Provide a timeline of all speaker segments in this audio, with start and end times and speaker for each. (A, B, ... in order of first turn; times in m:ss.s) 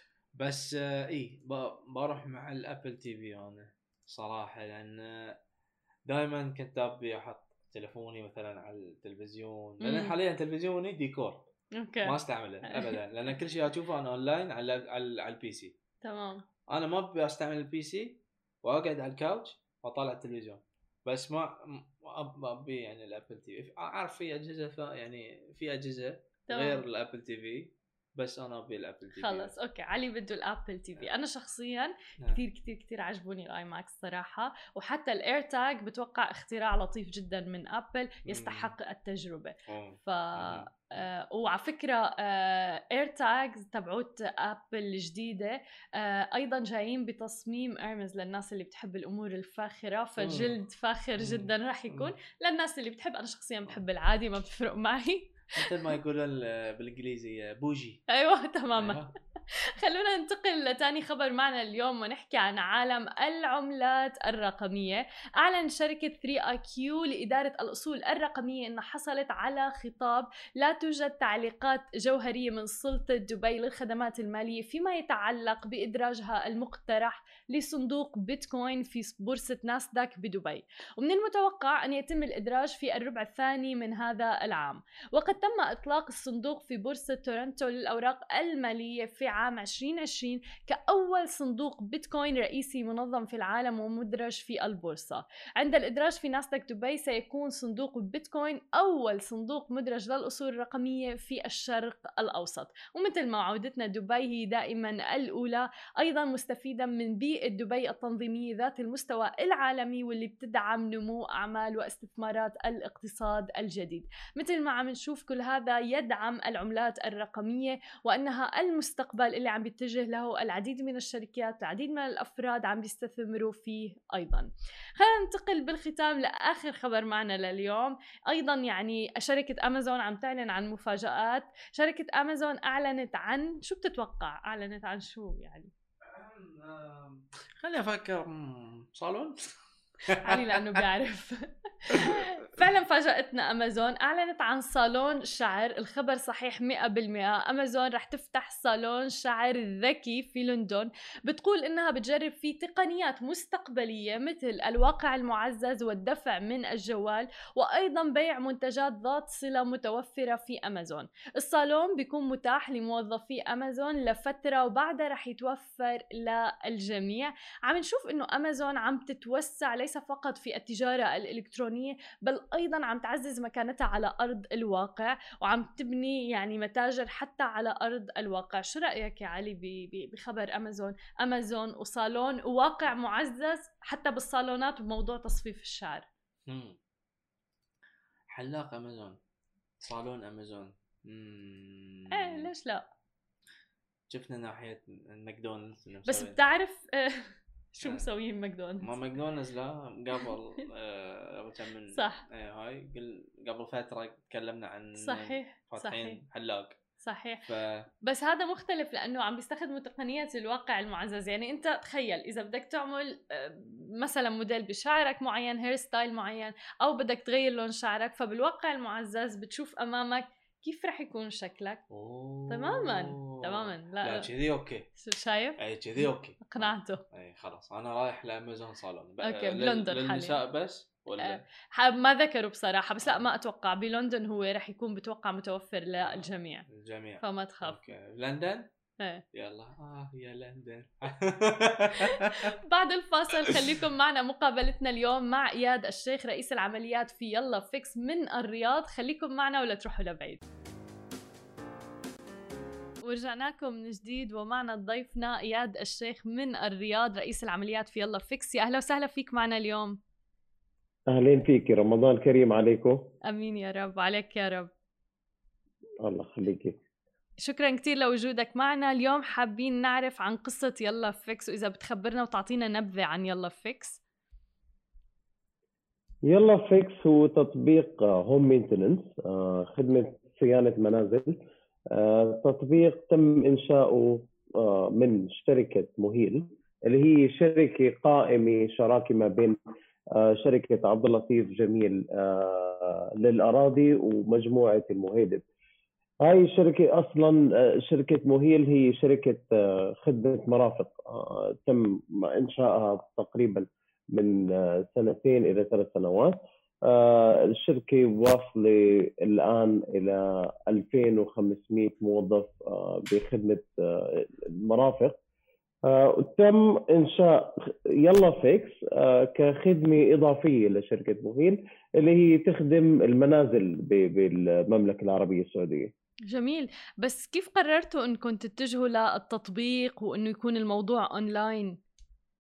0:00.4-0:05.4 A
0:06.1-0:11.5 A
0:09.8-0:10.1 B
0:11.8-0:12.2 B
0:12.0-0:15.8 A
0:12.7-0:13.0 B
0:16.0-0:16.4 B
0:16.7-0:29.5 A
0:26.5-0:26.8 B
0:29.2-0:55.7 B
0:38.3-0:38.7 A
0:39.7-0:40.7 A
0:50.2-0:50.6 A
0:51.2-0:52.2 A
0:55.5-0:58.0 A
0:58.1-0:59.0 B
0:58.8-0:59.1 A
0:59.8-2:15.7 B
2:16.0-2:19.5 A
2:20.1-2:20.8 A
2:20.2-3:06.1 B
3:06.5-3:06.8 A
3:08.3-3:09.2 A
3:09.8-3:12.5 A
3:12.1-3:12.9 B
3:14.1-3:16.4 A
3:16.1-3:18.9 B
3:18.8-3:26.8 A
3:22.0-3:22.2 B
3:25.0-3:26.2 B
3:27.0-3:27.4 B
3:27.5-3:27.9 A
3:28.0-3:41.8 B
3:41.9-3:44.9 A
3:42.5-3:44.3 B
3:45.0-3:47.0 B
3:45.6-3:51.4 A
3:49.2-3:50.4 B
3:51.2-3:56.7 B
3:56.0-3:58.7 A
3:57.2-3:57.8 B
3:59.3-4:02.6 A
4:02.0-4:10.4 B
4:13.0-4:20.0 B
4:21.1-4:23.1 C
4:23.3-4:24.7 B
4:26.0-4:26.8 C
4:27.4-4:34.0 B
4:36.2-4:41.4 C
4:41.9-4:49.6 C
4:50.1-4:55.4 C
4:56.2-5:15.2 C
5:15.9-5:25.9 C
5:26.3-5:31.8 B